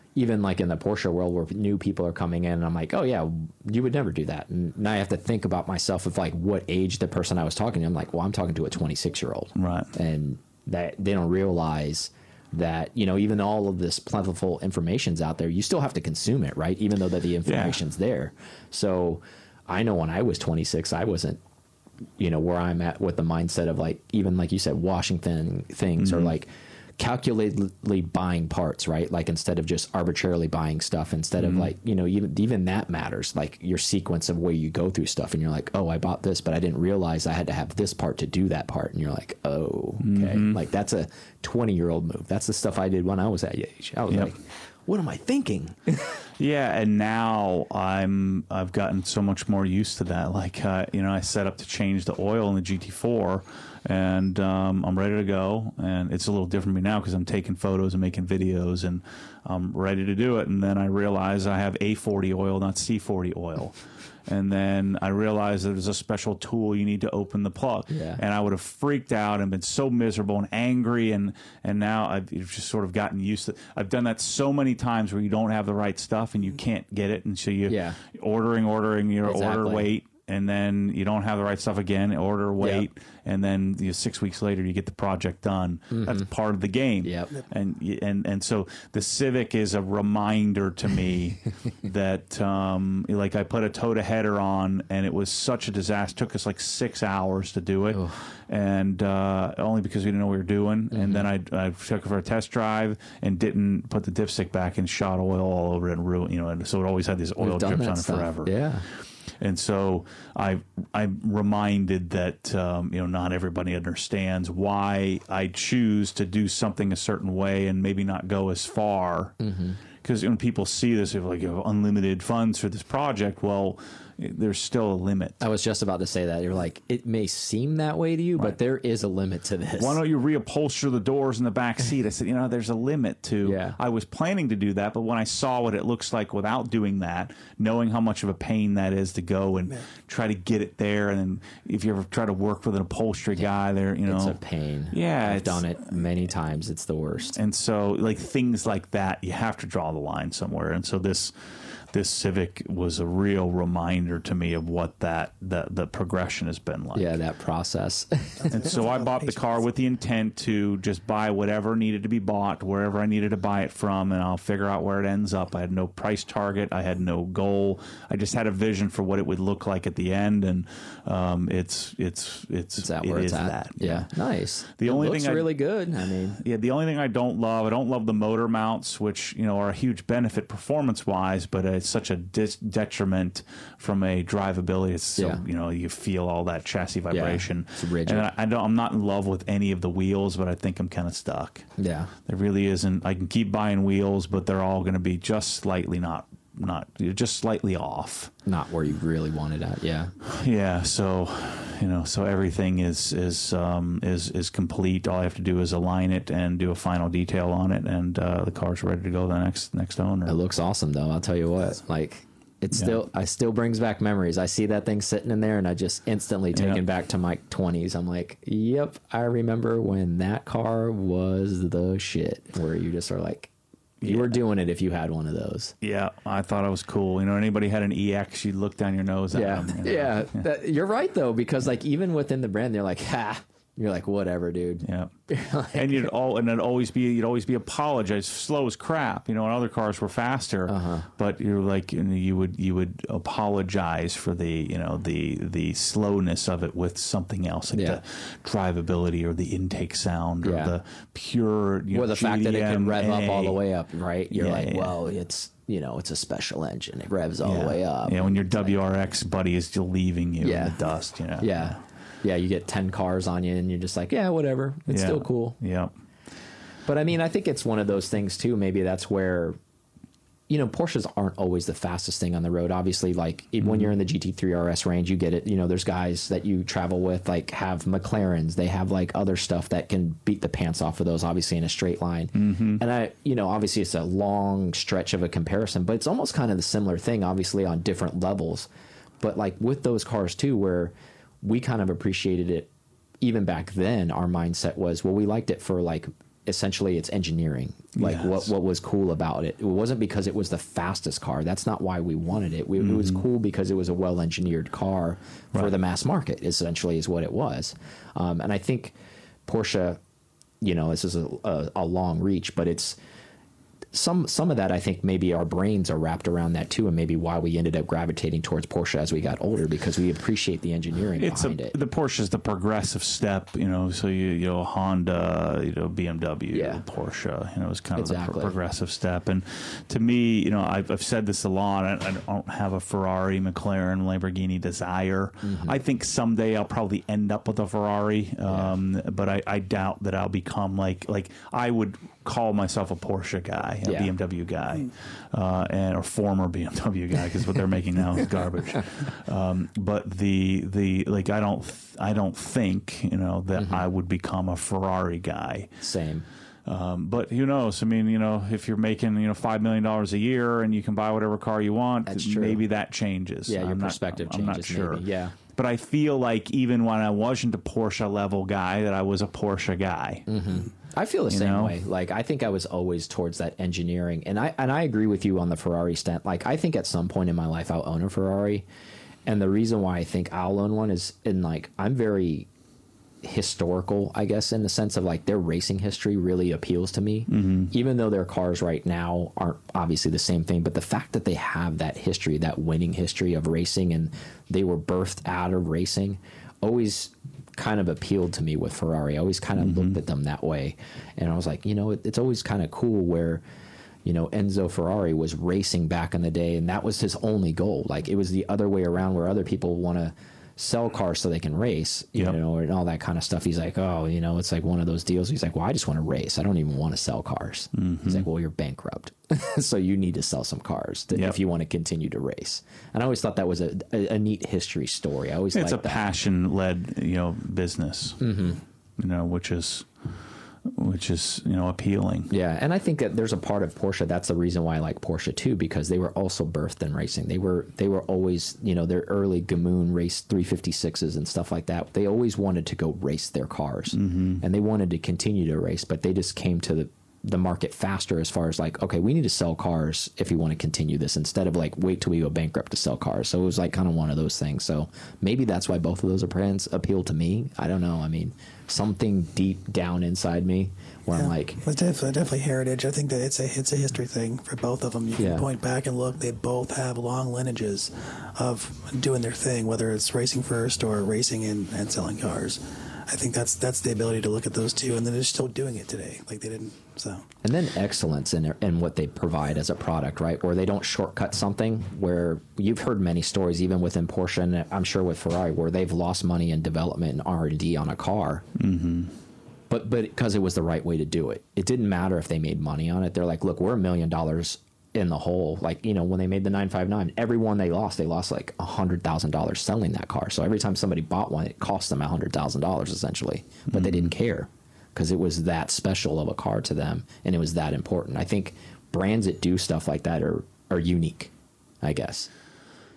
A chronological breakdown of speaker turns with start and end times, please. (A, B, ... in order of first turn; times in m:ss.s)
0:00.2-0:21.4 A
0:09.6-0:09.9 B
0:17.4-0:17.8 B
0:22.2-0:46.1 A
0:26.0-0:26.3 B
0:31.4-0:31.7 B
0:40.0-0:40.6 B
0:46.4-1:48.5 B
1:07.9-1:08.2 A
1:17.7-1:18.0 A
1:19.2-1:19.9 A
1:22.6-1:22.9 A
1:25.9-1:26.2 A
1:27.0-1:27.3 A
1:37.9-1:38.2 A
1:40.9-1:41.3 A
1:47.4-1:48.8 A
1:49.4-1:59.3 B
1:59.4-1:59.8 A
2:00.0-2:05.4 B
2:05.4-2:10.0 A
2:09.8-2:24.4 B
2:13.4-2:13.8 A
2:24.0-2:27.4 A
2:24.9-2:25.8 B
2:27.4-2:31.3 B
2:31.9-2:37.2 B
2:36.9-2:38.6 A
2:38.4-2:39.6 C
2:38.5-2:54.1 B
2:52.8-2:56.4 A
2:54.8-2:55.6 B
2:56.1-3:11.7 B
3:05.2-3:05.4 A
3:07.1-3:08.3 A
3:11.8-3:12.1 A
3:12.2-3:18.3 B
3:18.4-3:20.1 A
3:20.2-3:30.4 B
3:30.2-3:43.5 A
3:36.5-3:36.8 B
3:44.0-3:44.4 B
3:44.0-3:45.7 A
3:45.8-3:50.4 B
3:49.3-3:56.1 A
3:54.8-3:55.1 B
3:55.7-4:13.6 B
4:00.7-4:01.1 A
4:07.7-4:08.0 A
4:10.4-4:10.7 A
4:11.9-4:18.8 A
4:14.3-4:15.0 B
4:17.4-4:21.8 B
4:20.4-4:20.8 A
4:21.4-4:25.6 A
4:24.9-4:25.9 B
4:26.9-4:29.6 A
4:30.5-4:48.7 A
4:33.6-4:33.9 B
4:42.3-4:42.8 B
4:49.2-4:52.7 A
4:53.2-5:08.9 A
4:58.0-4:58.5 B
5:02.8-5:03.2 B
5:09.4-5:10.0 A
5:10.6-5:13.0 A
5:13.9-5:21.7 A
5:21.2-5:55.8 B
5:26.5-5:26.8 A
5:28.0-5:28.5 A
5:35.4-5:35.8 A
5:38.4-5:38.7 A
5:43.8-5:44.1 A
5:53.6-5:53.8 A
5:55.8-5:56.2 A
5:56.6-6:10.3 B
6:02.0-6:02.6 A
6:03.5-6:05.4 A
6:10.3-6:18.6 A
6:11.3-6:11.8 B
6:19.3-6:22.5 A
6:23.2-6:43.4 A
6:27.3-6:27.7 B
6:39.6-6:40.0 B
6:44.0-7:06.0 A
6:57.7-6:58.2 B
7:05.5-7:08.2 B
7:08.2-7:08.6 A
7:09.0-7:09.9 B
7:10.6-7:12.3 B
7:12.3-7:41.6 A
7:23.9-7:24.4 B
7:41.1-7:57.2 C
7:45.2-7:45.4 A
7:57.4-8:08.4 A
8:08.6-8:09.1 B
8:09.7-8:31.3 A
8:23.7-8:24.1 B
8:31.8-8:32.3 A